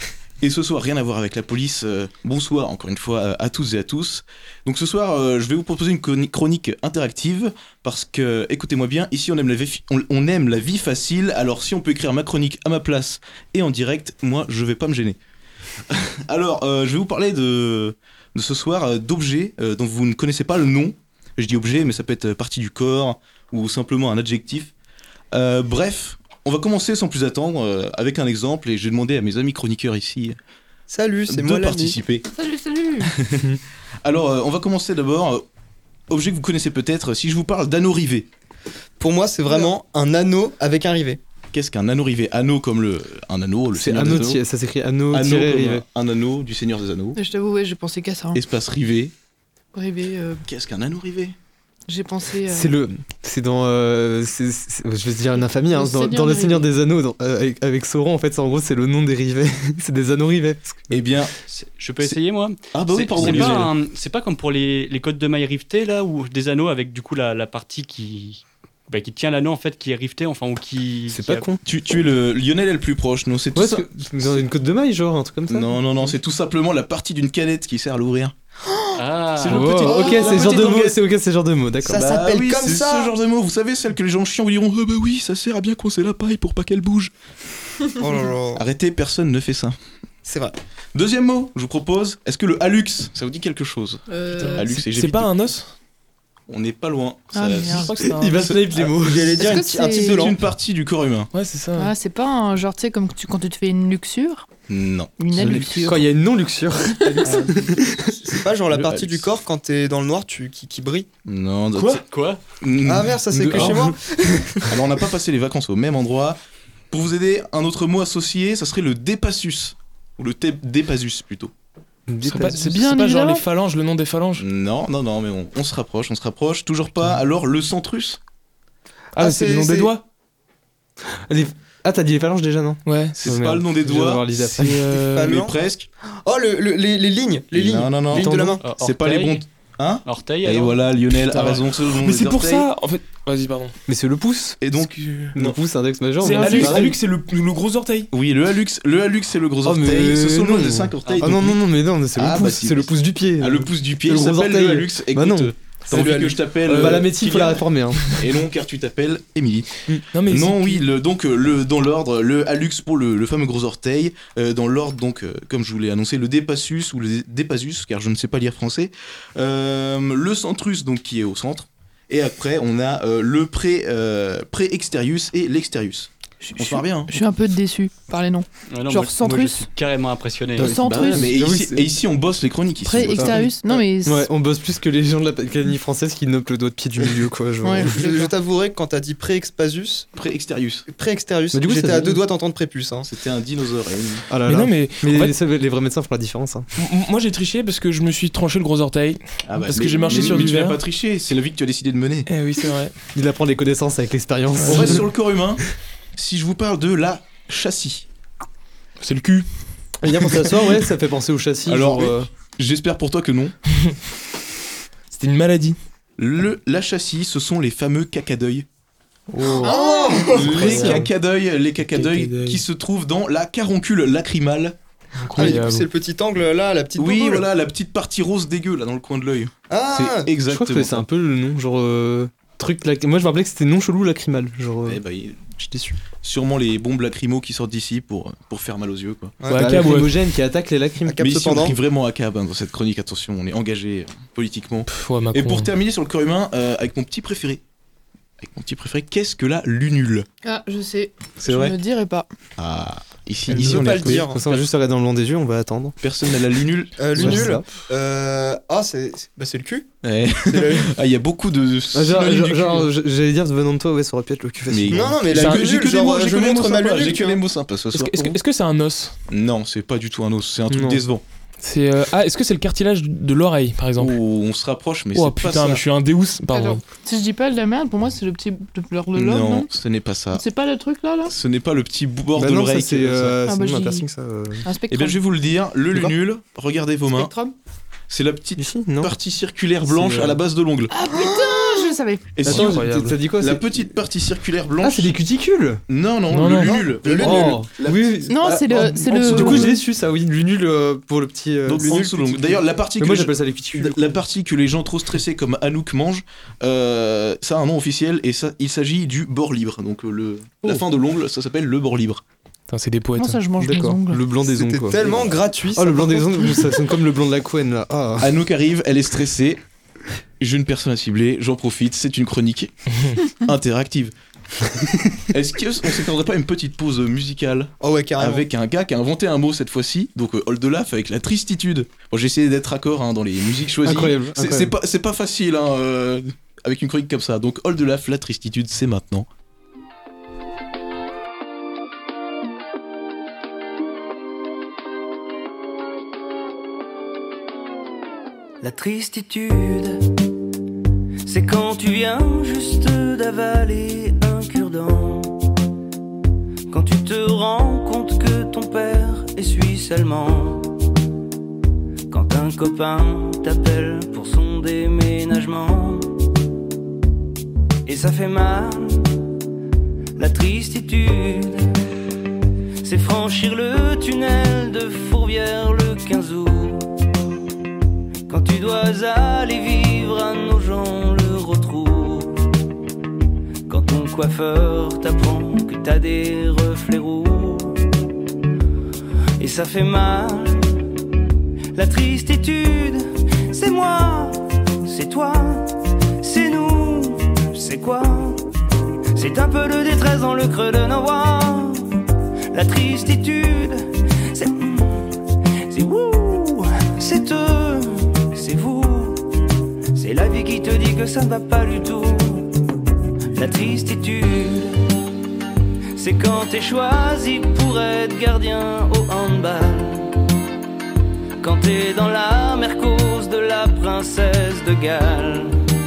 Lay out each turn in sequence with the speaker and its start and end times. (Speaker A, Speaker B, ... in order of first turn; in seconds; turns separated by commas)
Speaker A: 0.4-15.2, Speaker A: 15.9-24.7, Speaker A: 25.3-30.4, Speaker B: 30.9-32.0, Speaker A: 31.3-32.3, Speaker A: 33.0-33.5, Speaker A: 34.0-35.5, Speaker A: 36.1-38.3, Speaker B: 39.0-41.2, Speaker A: 41.5-44.4, Speaker C: 43.7-45.9, Speaker A: 45.1-47.2, Speaker D: 47.2-48.4, Speaker A: 48.3-49.1, Speaker D: 49.8-50.4, Speaker A: 50.5-51.4, Speaker D: 51.9-52.7, Speaker C: 52.5-60.9, Speaker D: 55.7-56.6, Speaker A: 60.9-61.3, Speaker E: 61.5-71.5, Speaker A: 62.7-63.7, Speaker C: 63.2-63.7, Speaker C: 71.1-71.6, Speaker A: 71.6-74.4, Speaker C: 73.5-76.1, Speaker A: 75.5-78.3, Speaker E: 79.0-79.8, Speaker A: 79.4-81.0, Speaker C: 79.4-82.1, Speaker B: 80.0-80.5, Speaker B: 81.8-83.1, Speaker A: 81.9-87.1, Speaker B: 88.0-88.6, Speaker A: 88.5-89.8, Speaker B: 90.2-90.5, Speaker A: 90.9-95.4, Speaker D: 94.1-94.6, Speaker F: 94.3-95.7, Speaker A: 96.5-98.9, Speaker D: 97.3-97.9, Speaker F: 97.6-98.6, Speaker C: 98.0-99.4, Speaker B: 98.9-100.4, Speaker D: 99.4-100.2, Speaker A: 100.1-101.3, Speaker F: 101.3-101.9, Speaker D: 101.8-104.5, Speaker A: 104.7-105.9, Speaker D: 105.2-106.0, Speaker C: 105.4-108.2, Speaker B: 108.2-111.1, Speaker A: 108.7-109.3, Speaker A: 111.3-112.0, Speaker F: 111.8-112.0, Speaker E: 112.0-112.4, Speaker A: 112.6-113.9, Speaker B: 112.8-114.8, Speaker F: 113.5-113.8, Speaker A: 114.7-116.4, Speaker A: 116.9-121.5, Speaker C: 122.1-122.8, Speaker F: 122.2-124.4, Speaker D: 122.6-123.4, Speaker A: 124.4-128.2, Speaker F: 129.2-130.0, Speaker B: 129.2-129.9, Speaker C: 131.3-134.9, Speaker F: 132.8-133.2, Speaker A: 133.2-134.7, Speaker F: 134.5-135.4, Speaker B: 134.9-135.6, Speaker A: 135.2-135.9, Speaker B: 136.2-138.6, Speaker A: 137.5-142.7, Speaker C: 138.1-138.6, Speaker E: 138.6-139.5, Speaker E: 140.1-140.9, Speaker F: 141.3-143.8, Speaker C: 143.9-144.6, Speaker A: 144.6-145.6, Speaker F: 145.0-145.3, Speaker C: 145.3-147.0, Speaker F: 146.2-148.1, Speaker A: 146.3-146.9, Speaker A: 148.1-151.6, Speaker C: 149.7-158.1, Speaker E: 151.1-151.4, Speaker A: 152.1-177.1, Speaker B: 155.9-157.0, Speaker F: 160.1-160.8, Speaker D: 176.4-179.7, Speaker E: 178.7-180.8, Speaker C: 180.6-182.0, Speaker D: 180.6-181.2, Speaker A: 180.8-183.5, Speaker D: 182.9-184.3, Speaker C: 182.9-183.5, Speaker C: 184.0-188.3, Speaker D: 187.6-188.2, Speaker B: 187.8-190.1, Speaker A: 190.2-190.9, Speaker B: 190.9-193.1, Speaker C: 191.5-192.2, Speaker A: 193.1-194.3, Speaker C: 194.3-196.7, Speaker F: 194.5-195.3, Speaker F: 196.8-200.8, Speaker A: 199.5-202.3, Speaker F: 202.3-202.9, Speaker C: 203.2-205.1, Speaker F: 204.6-205.0, Speaker A: 204.7-205.6, Speaker A: 206.2-208.1, Speaker F: 209.0-209.5, Speaker C: 210.0-212.3, Speaker A: 211.7-213.6, Speaker F: 215.1-215.8, Speaker A: 216.2-218.7, Speaker F: 219.3-219.9, Speaker B: 219.6-221.0, Speaker D: 219.7-220.2, Speaker A: 220.4-224.8, Speaker F: 220.5-221.1, Speaker C: 220.6-221.0, Speaker F: 221.9-222.6, Speaker F: 225.2-225.9, Speaker B: 225.3-227.5, Speaker A: 227.0-231.1, Speaker B: 229.7-230.3, Speaker C: 230.4-235.0, Speaker A: 234.8-235.6, Speaker C: 235.6-236.0, Speaker A: 236.2-239.4, Speaker B: 239.4-239.8, Speaker F: 239.5-240.1, Speaker C: 239.5-241.4, Speaker B: 241.1-241.8, Speaker A: 241.2-247.6, Speaker F: 244.9-245.7, Speaker A: 248.4-250.3, Speaker D: 250.4-252.3, Speaker A: 251.4-251.8, Speaker A: 252.6-254.6, Speaker B: 253.5-254.4, Speaker C: 253.5-256.0, Speaker A: 256.0-257.5, Speaker B: 257.0-259.9, Speaker C: 257.1-257.7, Speaker A: 260.0-262.9, Speaker B: 260.5-260.9, Speaker C: 261.9-265.2, Speaker A: 264.7-268.4, Speaker B: 264.9-267.4, Speaker F: 265.4-265.6, Speaker F: 267.9-269.1, Speaker A: 269.3-271.2, Speaker C: 270.7-271.0, Speaker F: 271.6-274.2, Speaker A: 274.0-275.8, Speaker F: 275.1-276.8, Speaker D: 276.5-279.7, Speaker A: 279.1-280.4, Speaker D: 280.4-281.3, Speaker A: 281.3-283.4, Speaker C: 282.4-284.7, Speaker D: 283.5-284.1, Speaker D: 284.6-285.2, Speaker A: 284.9-287.3, Speaker D: 287.1-287.5, Speaker A: 288.1-290.9, Speaker C: 288.6-289.1, Speaker C: 289.9-290.4, Speaker D: 290.9-292.2, Speaker B: 291.1-291.9, Speaker A: 292.4-295.2, Speaker F: 292.5-293.2, Speaker C: 292.5-293.9, Speaker C: 294.8-295.8, Speaker A: 295.9-299.8, Speaker F: 296.3-296.8, Speaker B: 296.6-297.6, Speaker C: 297.1-304.2, Speaker D: 298.3-299.8, Speaker A: 301.7-312.2, Speaker B: 301.8-302.4, Speaker F: 312.7-313.5, Speaker D: 313.2-314.2, Speaker C: 313.6-318.4, Speaker B: 314.5-316.6, Speaker A: 315.0-315.3, Speaker A: 318.2-319.6, Speaker A: 320.4-322.7, Speaker A: 323.2-324.1, Speaker A: 325.2-339.3, Speaker B: 327.8-328.5, Speaker C: 333.8-334.8, Speaker G: 348.6-350.0, Speaker G: 351.2-355.3, Speaker G: 356.7-360.7, Speaker G: 362.1-366.1, Speaker G: 367.9-369.1, Speaker G: 370.2-371.6, Speaker G: 372.8-376.9, Speaker G: 378.3-382.4, Speaker G: 383.7-387.8, Speaker G: 389.4-390.8, Speaker G: 391.7-398.4, Speaker G: 399.1-401.9, Speaker G: 402.5-405.1, Speaker G: 405.7-409.2, Speaker G: 409.9-412.5, Speaker G: 413.3-414.8, Speaker G: 416.0-420.1, Speaker G: 421.4-425.5